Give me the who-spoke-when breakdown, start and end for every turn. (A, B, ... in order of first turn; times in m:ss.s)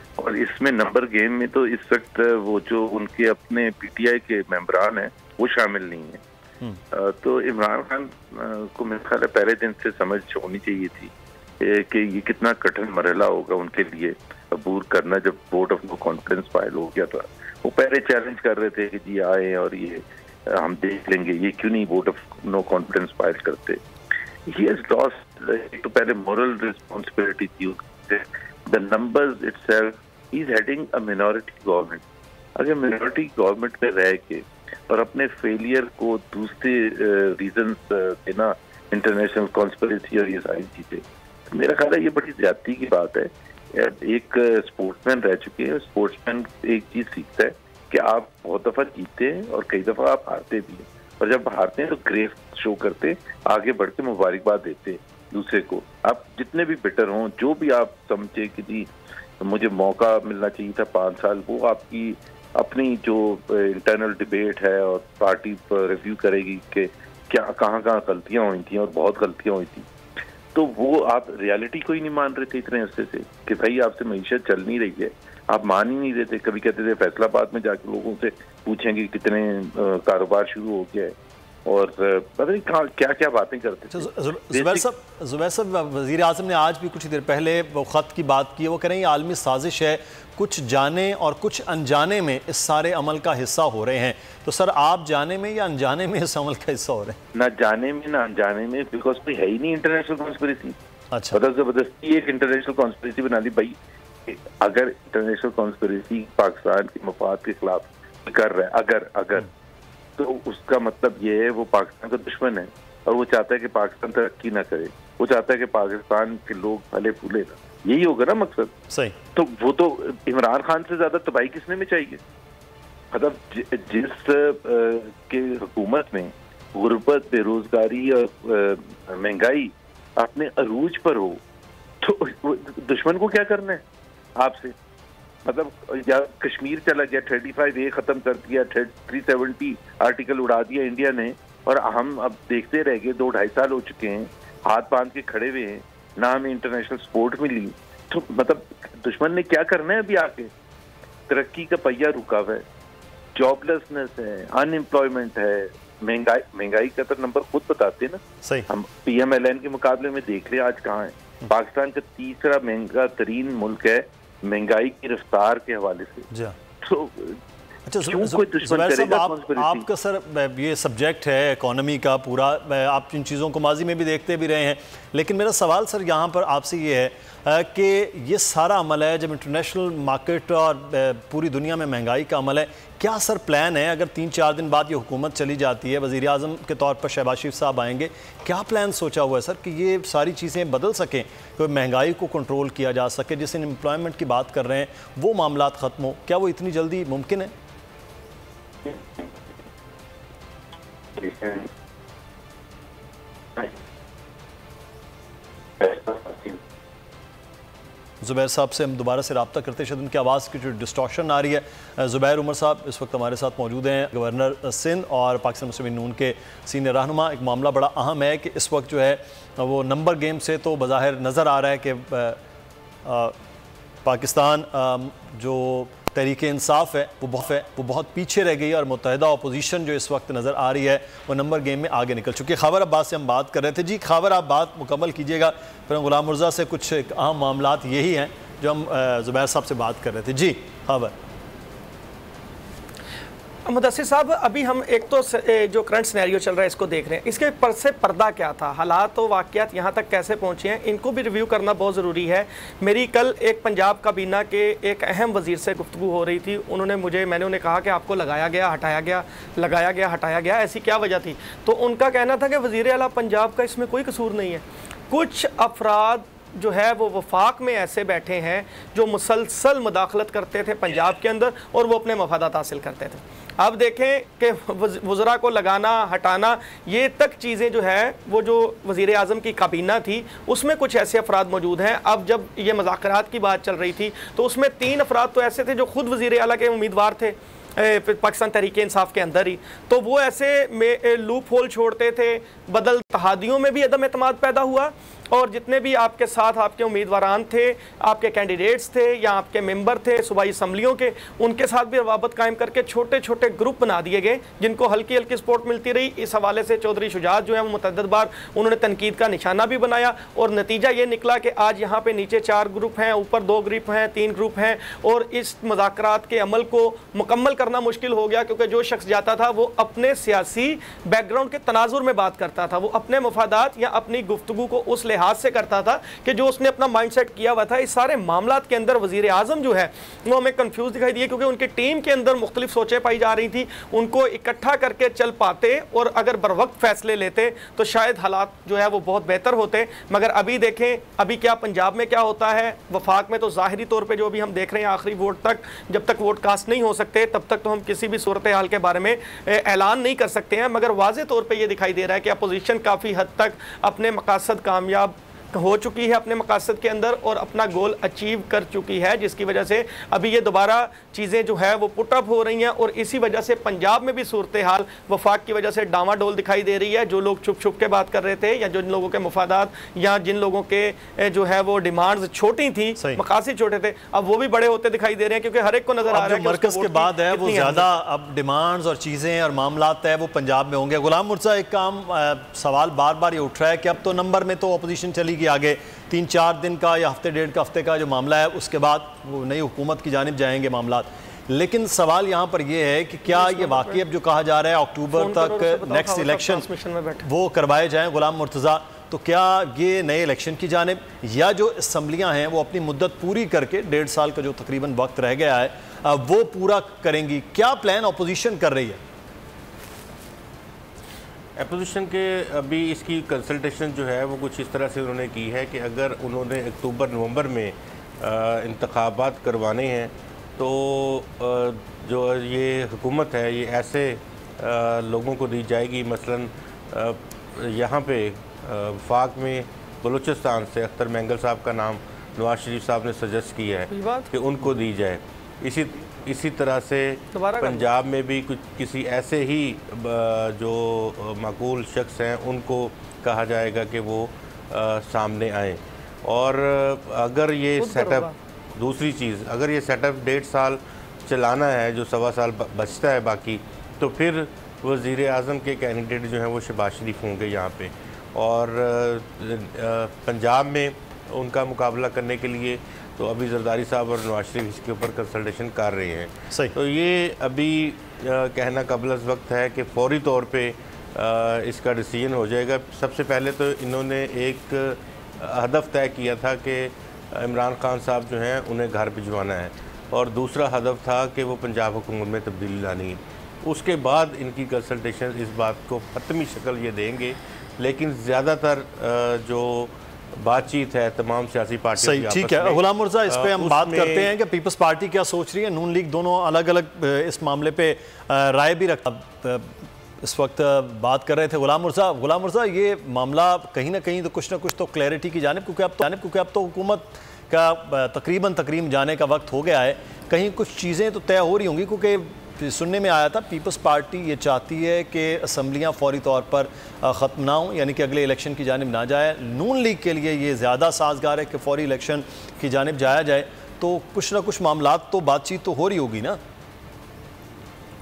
0:00.2-0:06.2 A
0:06.9-0:23.8 A
0:24.4-0:32.0 A
0:32.6-1:09.9 A
1:10.5-1:24.8 A
1:23.9-1:37.2 B
1:37.3-1:40.8 A
1:41.1-1:41.4 B
1:41.3-1:49.5 A
1:50.2-1:58.8 A
1:58.9-1:59.2 B
1:59.3-2:02.2 A
2:03.1-2:11.4 A
2:12.0-2:13.8 A
2:14.4-2:14.7 A
2:15.4-2:30.5 A
2:31.3-2:32.6 A
2:33.3-2:46.3 A
2:38.4-2:38.7 B
2:46.3-2:46.6 B
2:46.8-2:47.4 A
2:47.9-3:17.5 B
2:48.0-2:49.9 A
3:18.8-3:19.3 A
3:21.1-3:21.7 A
3:25.8-3:26.6 A
3:28.2-3:42.4 B
3:43.0-3:43.4 B
3:44.0-4:01.1 B
4:03.6-6:17.9 C
6:16.1-6:36.6 B
6:33.3-6:34.0 C
6:35.1-6:37.2 C
6:37.2-6:49.0 B
6:51.6-8:14.3 D
7:13.9-7:14.3 C
7:17.3-7:17.9 C
7:27.8-7:28.3 C
8:12.0-8:46.4 B